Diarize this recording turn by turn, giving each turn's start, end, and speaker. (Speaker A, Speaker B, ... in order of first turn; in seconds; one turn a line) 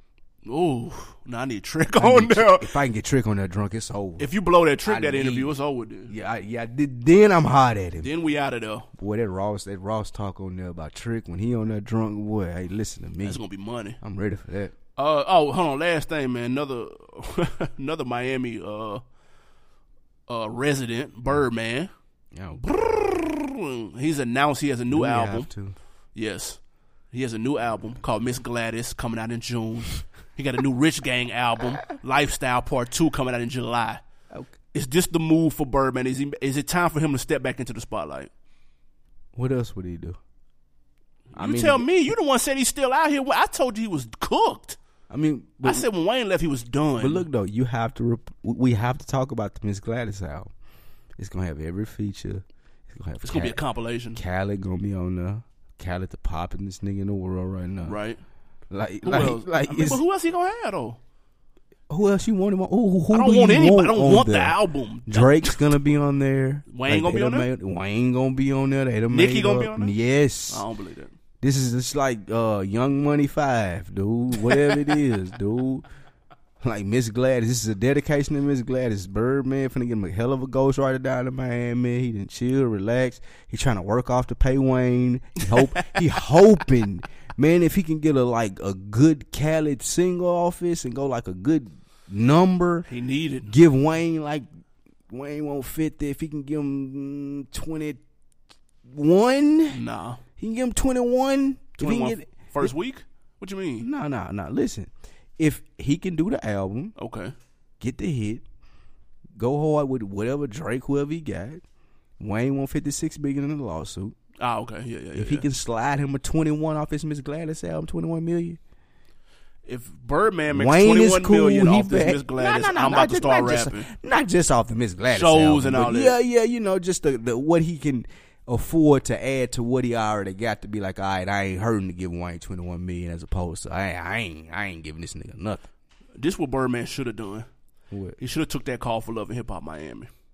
Speaker A: 0.5-2.8
Speaker B: 1.9-4.3
Speaker A: 4.2-6.1
Speaker B: 4.8-5.6
Speaker B: 6.1-8.1
Speaker A: 8.0-8.9
Speaker B: 9.0-13.4
Speaker A: 13.2-14.0
Speaker B: 14.0-14.7
Speaker A: 15.0-19.0
Speaker A: 20.3-21.9
Speaker B: 22.3-22.6
Speaker A: 22.6-25.5
Speaker B: 24.9-25.8
Speaker A: 26.1-26.6
Speaker A: 27.1-34.0
Speaker A: 34.7-38.3
Speaker B: 39.4-40.2
Speaker A: 41.3-44.8
Speaker B: 41.4-41.9
Speaker B: 45.1-45.9
Speaker A: 45.6-47.3
Speaker B: 47.0-50.5
Speaker B: 51.2-53.6
Speaker A: 53.2-54.2
Speaker B: 54.1-58.0
Speaker A: 57.8-58.2
Speaker B: 58.7-60.0
Speaker A: 59.0-61.0
Speaker B: 61.9-70.7
Speaker A: 63.1-65.7
Speaker A: 66.7-67.5
Speaker A: 69.1-69.9
Speaker A: 70.5-71.1
Speaker B: 71.4-75.8
Speaker B: 76.6-92.9
Speaker A: 92.9-93.5
Speaker B: 93.5-94.5
Speaker B: 95.1-98.0
Speaker B: 98.8-99.8
Speaker A: 99.7-100.2
Speaker B: 100.4-102.7
Speaker A: 101.8-103.9
Speaker B: 103.8-107.0
Speaker A: 107.0-107.3
Speaker B: 107.8-108.4
Speaker B: 109.4-111.6
Speaker B: 112.2-114.2
Speaker A: 114.4-115.5
Speaker B: 115.2-118.6
Speaker A: 119.7-123.9
Speaker B: 120.5-135.7
Speaker A: 125.1-126.2
Speaker A: 136.2-137.5
Speaker B: 137.9-138.2
Speaker A: 138.2-140.1